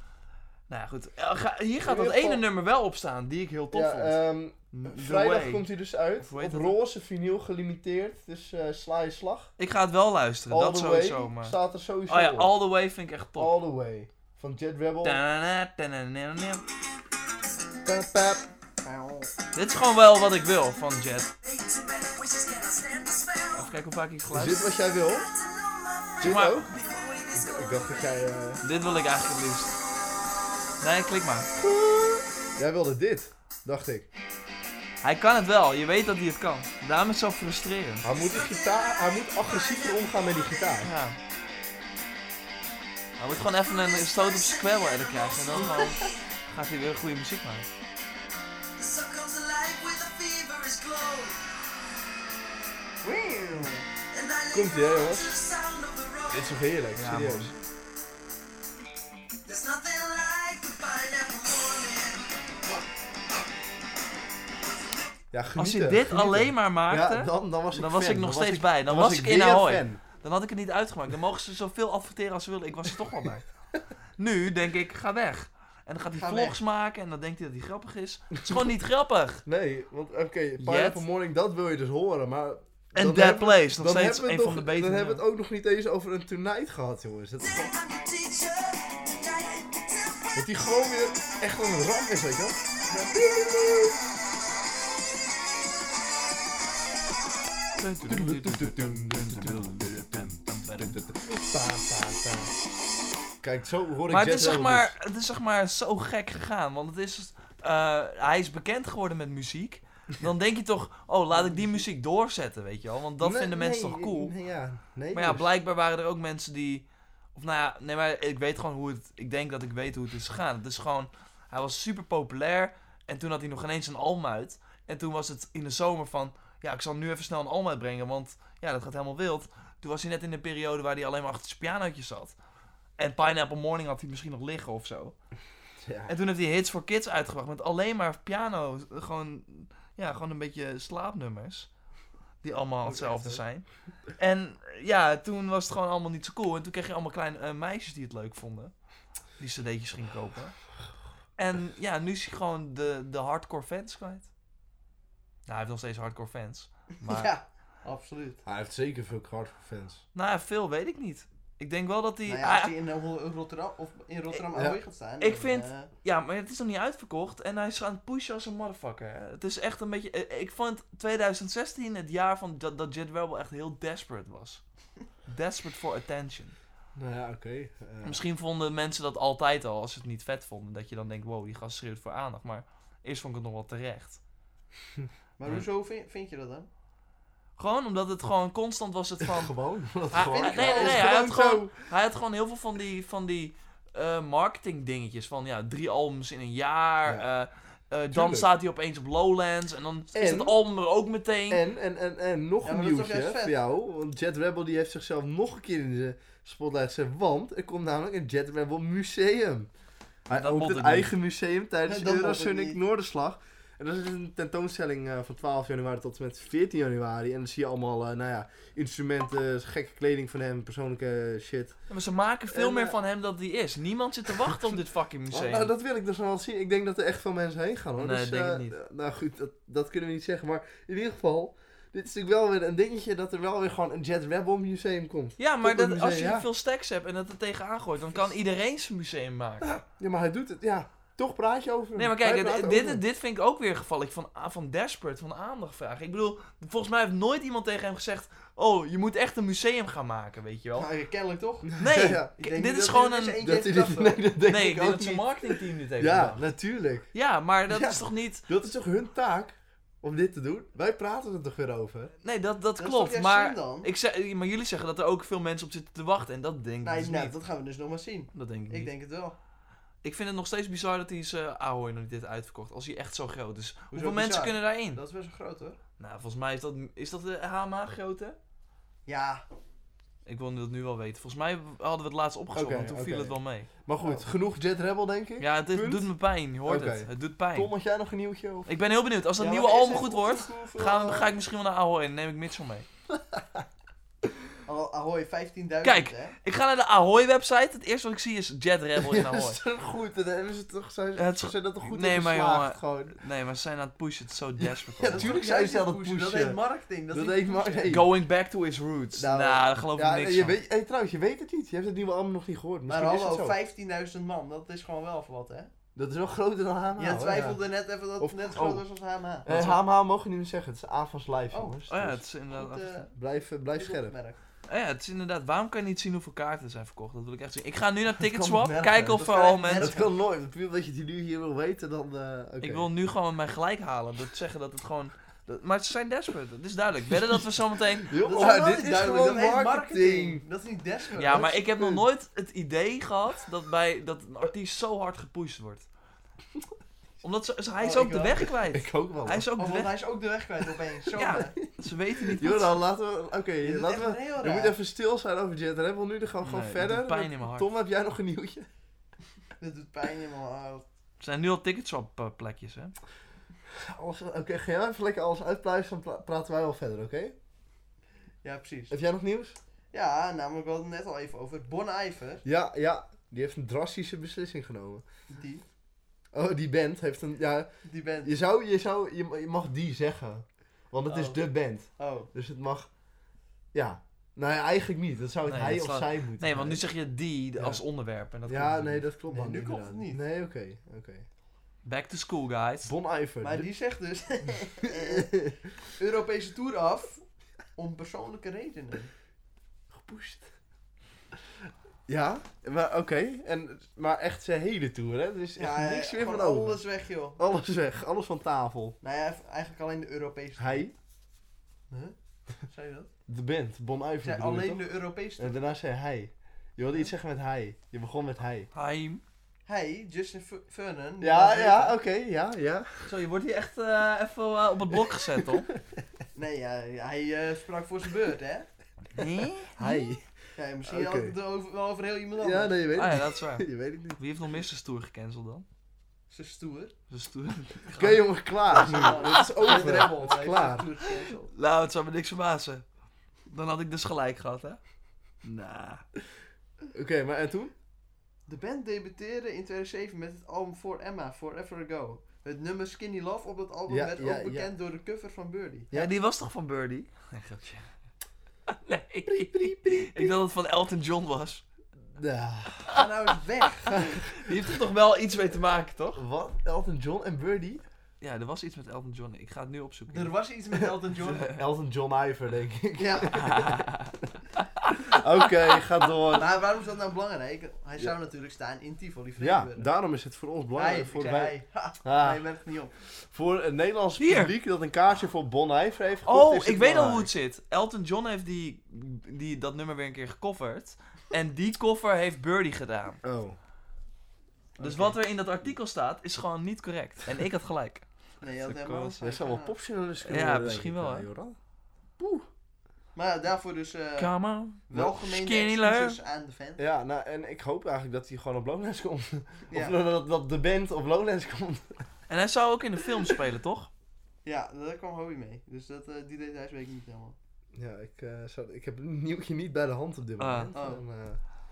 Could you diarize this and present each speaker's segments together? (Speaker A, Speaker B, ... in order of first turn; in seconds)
Speaker A: 0.7-4.2, 4.7-5.6, 6.2-6.7, 9.6-11.6, 12.1-13.5, 15.0-16.6, 19.5-21.3, 23.5-24.6, 26.2-26.6, 28.6-29.7, 30.8-31.5, 35.0-38.0, 40.8-41.2, 43.2-47.7, 56.9-57.5, 65.6-73.4, 74.2-79.4, 80.6-81.0, 82.9-85.2, 97.8-101.0, 104.1-114.3, 115.1-132.3, 133.0-135.1, 136.1-141.7, 142.4-148.7, 149.4-150.6, 151.4-154.3, 155.4-157.3, 160.1-162.7, 165.2-174.6, 175.2-176.5, 178.0-184.2, 187.6-189.5, 190.1-201.6, 210.3-211.1, 221.9-225.7, 228.0-228.7, 235.4-239.8, 241.9-250.9, 251.8-253.4, 254.4-256.4, 257.1-258.4, 262.2-267.4, 268.3-268.9, 270.0-275.0, 276.0-278.4, 280.2-283.7, 285.4-287.7, 288.7-292.9, 295.8-299.6, 301.1-305.4, 307.9-310.6, 321.9-323.0, 324.7-330.0, 332.6-338.1, 341.2-345.9, 347.2-349.9, 351.2-352.8, 356.4-357.7, 361.2-362.9, 385.4-389.0, 391.8-392.9, 418.7-419.2, 423.1-425.7, 429.1-429.8, 432.9-435.6, 437.1-438.1, 439.0-440.1, 441.4-442.8, 443.5-444.8, 445.4-446.0, 455.9-457.9, 458.7-461.6, 464.3-466.2, 468.2-470.3, 471.3-471.6, 473.3-475.0, 484.2-484.5, 486.2-493.2, 494.8-498.0, 500.2-501.3, 504.2-506.2, 512.3-513.9, 520.4-520.7
Speaker B: 1.8-2.4, 3.7-9.5, 10.5-12.5, 13.4-15.2, 17.8-18.4, 24.3-25.3, 26.2-26.7, 27.3-28.6, 31.5-34.1, 38.0-40.9, 54.5-55.4, 56.3-57.5, 65.3-70.0, 79.5-87.7, 90.3-92.6, 93.1-94.0, 98.1-102.5, 103.4-104.9, 113.2-115.5, 135.8-136.1, 158.4-160.0, 176.9-178.2, 189.2-191.7, 198.1-198.5, 200.1-200.6, 201.5-209.7, 210.3-221.8, 222.5-223.0, 225.3-236.5, 239.8-243.0, 251.7-252.3, 253.4-257.1, 257.7-262.1, 282.5-286.1, 286.6-288.7, 293.1-293.6, 299.0-303.2, 304.6-306.6, 307.1-308.1, 309.1-313.6, 315.9-317.6, 318.2-318.8, 319.4-322.2, 323.1-324.1, 328.2-332.9, 338.0-340.4, 341.2-342.1, 348.6-349.5, 352.2-358.7, 363.7-367.4, 368.9-369.6, 372.4-375.0, 376.3-377.7, 378.2-382.9, 383.7-386.8, 388.5-391.2, 392.8-393.7, 394.8-395.6, 399.9-400.5, 402.1-406.8, 407.4-409.0, 410.6-410.9, 413.3-418.7, 421.2-423.0, 425.1-425.8, 429.8-430.2, 430.9-431.3, 432.4-434.2, 437.9-440.9, 446.9-447.7, 453.9-454.7, 459.2-460.4, 462.1-463.0, 466.1-467.8, 470.8-473.9, 475.0-476.5, 479.4-482.4, 483.1-487.3, 493.2-493.6, 498.7-501.6, 502.2-502.5, 506.8-512.0, 517.7-521.4
Speaker C: 18.8-19.3, 53.0-53.9, 76.1-76.6, 142.8-143.4, 157.0-158.4, 162.2-165.9, 185.4-186.7, 190.2-191.0, 202.6-203.6, 211.9-212.8, 250.8-251.8, 252.4-254.2, 262.8-263.9, 266.8-269.4, 273.9-275.8, 279.1-279.4, 289.4-291.2, 294.6-296.3, 305.0-307.9, 312.9-315.7, 317.0-319.8, 321.5-321.8, 322.5-323.1, 323.7-324.4, 329.2-330.1, 338.2-341.5, 347.8-348.5, 349.6-351.6, 353.6-354.8, 359.6-360.8, 368.4-368.9, 369.9-372.4, 375.3-375.6, 377.8-378.3, 381.1-381.5, 382.0-382.3, 389.3-390.2, 393.4-395.3, 395.9-397.2, 397.8-399.1, 405.6-407.4, 409.0-410.8, 411.9-413.1, 414.2-415.6, 419.6-421.9, 426.3-428.7, 430.6-432.8, 436.3-436.9, 438.7-441.5, 448.5-455.9, 462.9-464.1, 470.1-471.5, 473.0-473.5, 476.3-479.9, 480.8-482.9, 494.8-495.2, 498.4-499.7, 503.1-504.3, 504.9-506.8, 509.7-510.0, 514.4-517.4, 520.7-521.0
Speaker D: 21.4-23.7, 24.8-28.3, 38.1-40.7, 43.6-46.2, 48.8-51.5, 54.1-56.6, 59.4-62.5, 87.4-90.3